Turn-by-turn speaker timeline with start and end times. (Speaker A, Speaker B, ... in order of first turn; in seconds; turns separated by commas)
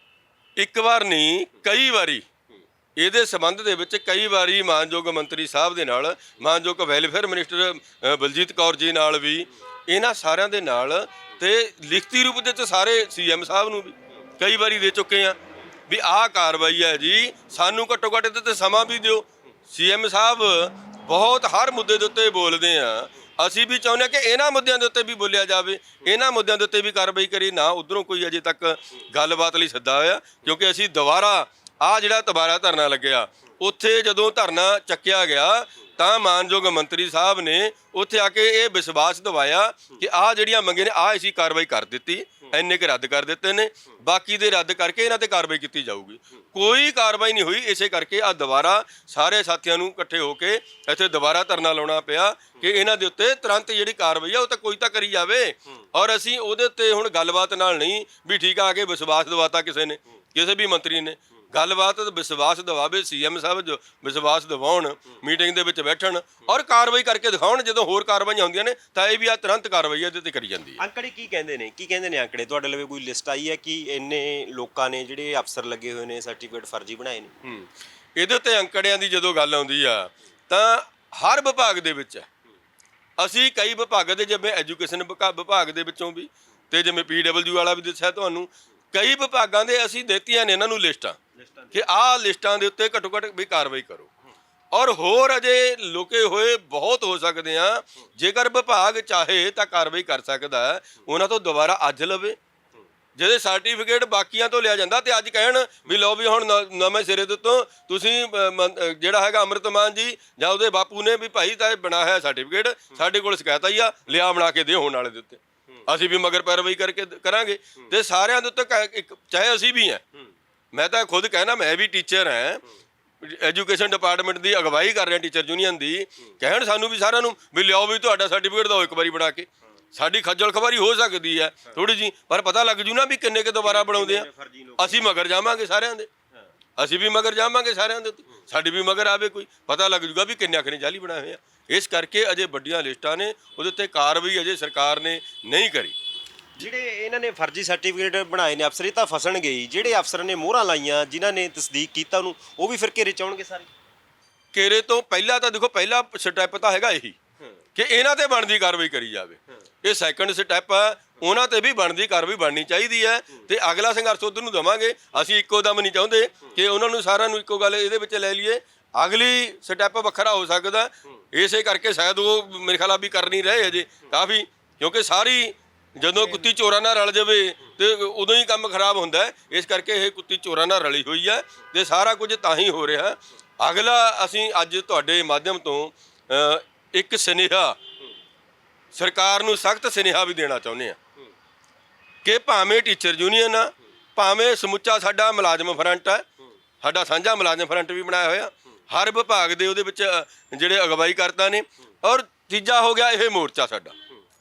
Speaker A: 0.6-2.2, Speaker A: 3.0-15.4, Speaker A: 15.9-70.8, Speaker B: 70.8-77.3, Speaker A: 77.4-82.3, Speaker A: 83.2-91.2, Speaker B: 91.4-91.8, Speaker A: 91.7-94.1, Speaker A: 94.7-102.4, Speaker A: 103.2-120.0, Speaker A: 120.7-122.6, Speaker A: 123.2-134.3, Speaker B: 133.6-135.0, Speaker A: 134.8-136.1, Speaker A: 136.8-145.9, Speaker B: 146.6-153.7, Speaker A: 154.5-157.2, Speaker A: 157.7-187.8, Speaker A: 188.9-191.0, Speaker A: 192.2-196.2, Speaker A: 196.8-204.0